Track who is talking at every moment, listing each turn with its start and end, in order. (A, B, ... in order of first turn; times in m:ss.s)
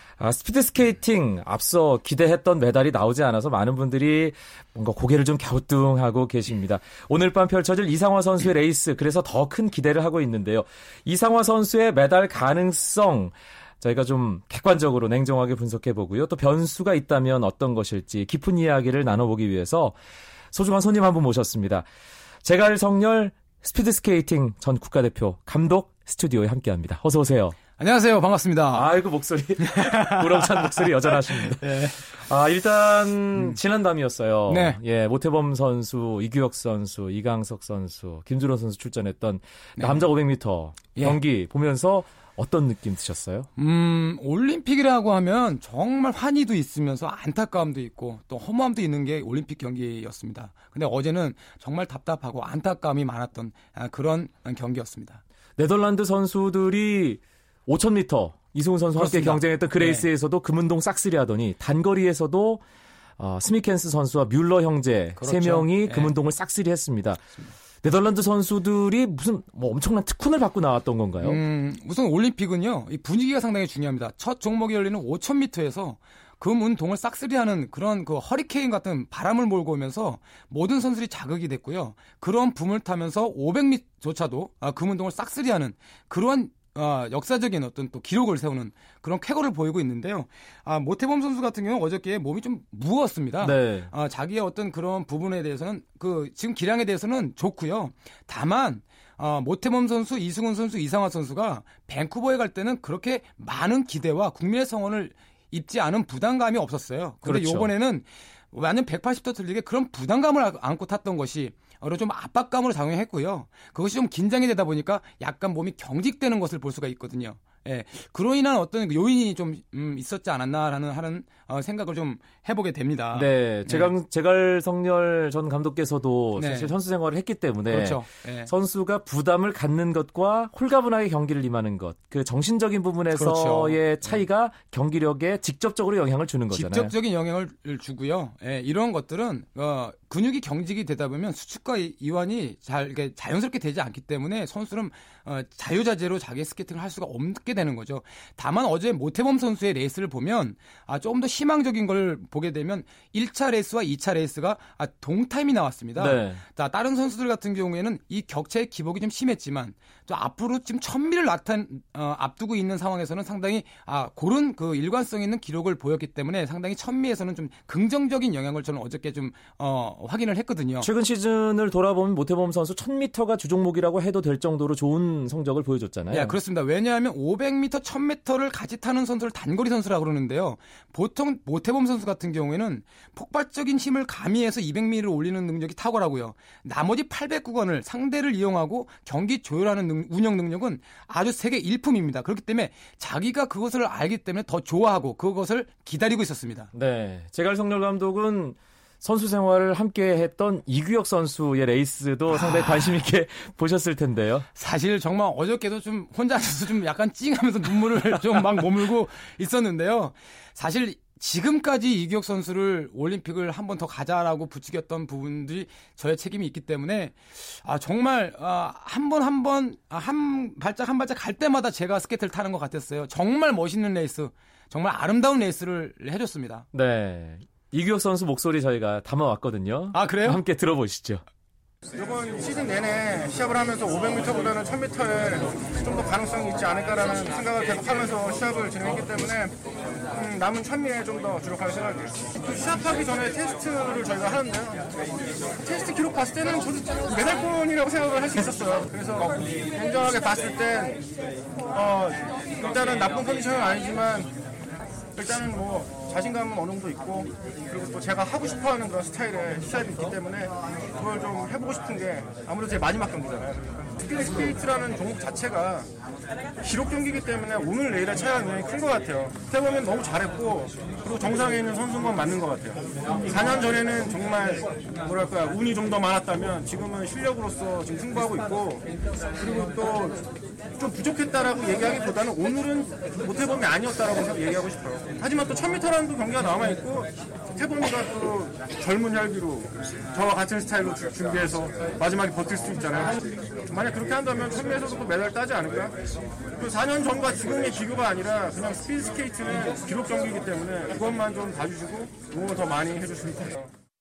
0:00.2-0:19.9 A
0:20.5-0:21.8 A
0:22.4-0:27.6 A
0:27.8-0:28.9 B
0:28.7-0:43.5 A
0:29.6-0:32.0 B
0:34.5-0:34.8 B
0:39.8-0:40.0 B
0:43.6-0:55.2 B
0:55.6-1:02.6 A
0:59.0-1:00.0 B
1:03.2-1:07.2 A
1:05.2-1:06.1 B
1:07.8-1:11.4 A
1:11.2-2:03.9 B
1:33.4-1:33.9 A
1:47.2-1:47.7 A
2:03.1-2:16.9 A
2:06.4-2:06.7 B
2:07.7-2:08.5 B
2:13.1-2:13.8 B
2:16.5-2:50.9 B
2:36.0-2:36.4 A
2:50.8-2:56.4 A
2:56.1-3:16.7 B
3:16.7-3:24.5 A
3:22.6-3:22.9 B
3:24.5-3:46.6 B
3:46.7-3:51.2 A
3:49.9-3:50.4 B
3:51.9-3:59.5 C
4:00.1-4:04.8 C
4:05.6-4:11.0 C
4:11.7-4:14.3 C
4:15.2-4:25.9 C
4:26.6-4:38.8 C
4:39.4-4:40.2 C
4:40.8-4:53.2 C
4:53.7-4:55.9 C
4:56.6-5:03.7 C